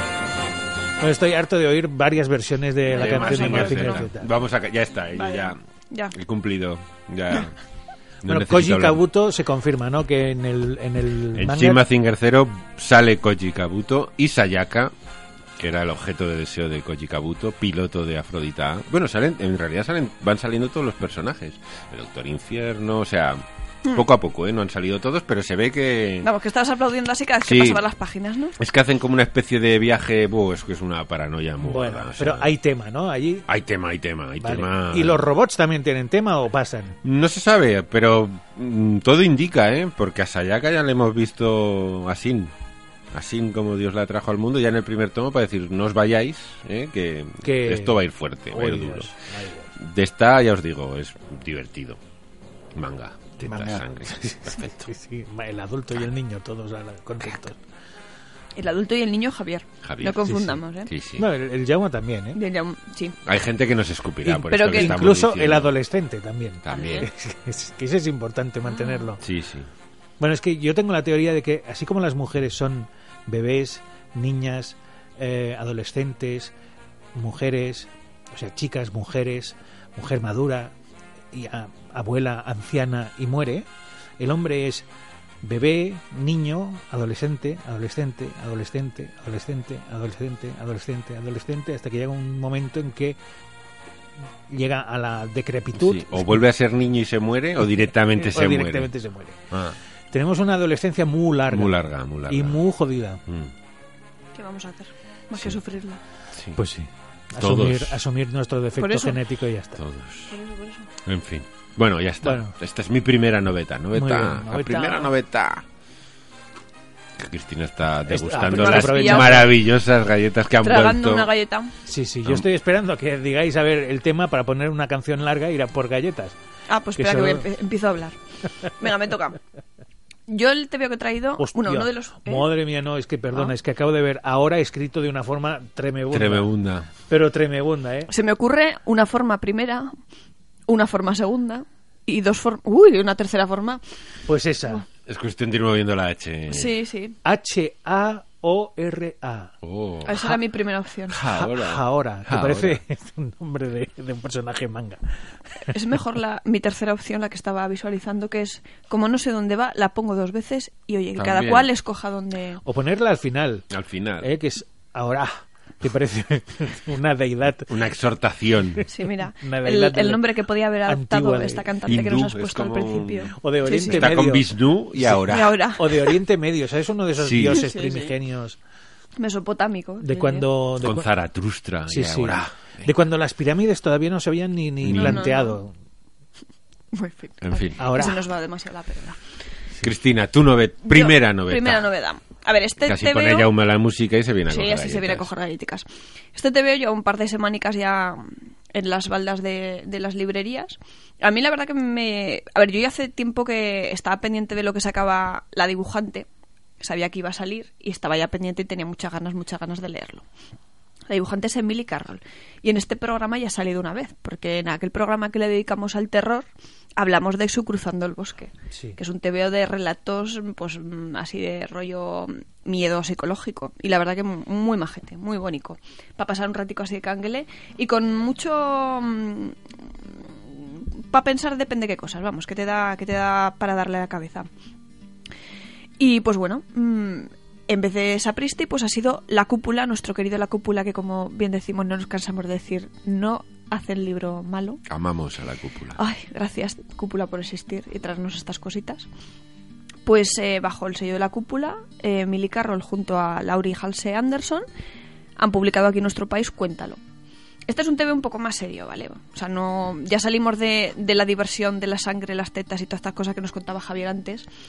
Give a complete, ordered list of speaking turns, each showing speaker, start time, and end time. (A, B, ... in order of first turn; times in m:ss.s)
0:01.0-0:04.3 A
0:02.9-0:05.6 B
0:02.9-0:04.1 C
0:05.2-0:06.1 C
0:06.1-0:07.5 B
0:08.2-0:09.0 B
0:08.2-0:11.8 A
0:11.3-0:14.9 B
0:15.6-0:26.3 B
0:26.2-0:28.6 C
0:27.4-0:27.8 B
0:28.6-0:32.5 B
0:31.6-0:33.4 A
0:33.5-0:35.2 B
0:34.4-0:37.0 A
0:37.0-0:42.5 B
0:43.1-0:49.1 B
0:47.4-0:49.7 A
0:49.8-0:52.0 B
0:52.7-0:54.9 B
0:53.4-0:57.6 A
0:58.6-1:00.9 C
0:59.8-1:01.3 B
1:01.2-1:02.4 A
1:02.3-1:03.2 C
1:03.2-1:05.7 B
1:04.2-1:09.2 A
1:04.5-1:05.0 C
1:06.6-1:07.1 B
1:06.7-1:07.0 C
1:08.7-1:09.1 C
1:09.2-1:09.7 B
1:10.2-1:16.5 A
1:17.1-1:20.7 A
1:21.3-1:23.7 A
1:24.2-1:24.8 A
1:25.4-1:33.2 A
1:34.5-1:36.4 A
1:35.8-1:38.9 B
1:38.1-1:39.4 A
1:39.5-1:39.8 B
1:40.1-1:41.7 A
1:41.5-1:42.6 B
1:42.3-1:43.2 A
1:43.3-1:43.5 B
1:44.3-1:46.0 C
1:46.3-1:46.6 B
1:46.6-1:49.8 A
1:47.4-1:48.0 B
1:48.8-1:49.2 C
1:49.8-1:50.4 B
1:50.3-1:50.9 C
1:51.0-1:55.6 B
1:52.2-1:52.5 A
1:53.9-1:55.1 A
1:57.2-2:01.3 B
1:58.1-1:59.5 A
1:58.4-1:59.5 C
2:00.6-2:01.7 C
2:01.8-2:06.4 A
2:06.7-2:08.2 C
2:07.0-2:07.4 A
2:08.7-2:09.4 C
2:10.3-2:12.5 C
2:11.4-2:16.5 A
2:16.1-2:16.9 B
2:17.1-2:18.1 A
2:18.1-2:19.9 C
2:20.7-2:23.8 C
2:24.3-2:24.8 A
2:25.0-2:26.7 B
2:26.5-2:27.2 C
2:27.2-2:29.5 A
2:29.6-2:30.2 B
2:30.0-2:31.2 C
2:31.1-2:32.8 B
2:31.3-2:35.0 A
2:35.7-2:42.6 C
2:41.2-2:41.7 B
2:42.6-2:43.7 A
2:43.7-2:44.3 B
2:44.2-2:47.7 A
2:47.7-2:48.8 B
2:48.9-2:54.1 C
2:49.4-2:50.2 A
2:50.8-2:51.7 A
2:51.9-2:55.6 B
2:53.4-2:55.2 A
2:55.2-2:56.1 C
2:55.8-2:58.6 A
2:57.2-2:57.6 B
2:57.5-2:58.1 C
2:59.2-3:00.5 C
3:00.0-3:01.0 A
3:00.8-3:02.9 B
3:01.9-3:05.7 A
3:04.8-3:05.3 B
3:04.9-3:05.6 C
3:06.9-3:09.2 C
3:07.4-3:08.0 B
3:07.8-3:08.2 A
3:09.8-3:11.9 B
3:10.8-3:13.5 C
3:12.8-3:15.3 B
3:14.5-3:26.2 C
3:26.8-3:30.2 C
3:31.1-3:36.4 C
3:37.0-3:49.6 C
3:38.7-3:39.0 A
3:50.2-3:54.5 C
3:56.0-4:04.8 C
4:04.9-4:06.0 B
4:06.0-4:09.1 C
4:10.0-4:14.6 C
4:15.4-4:17.0 C
4:17.7-4:24.5 C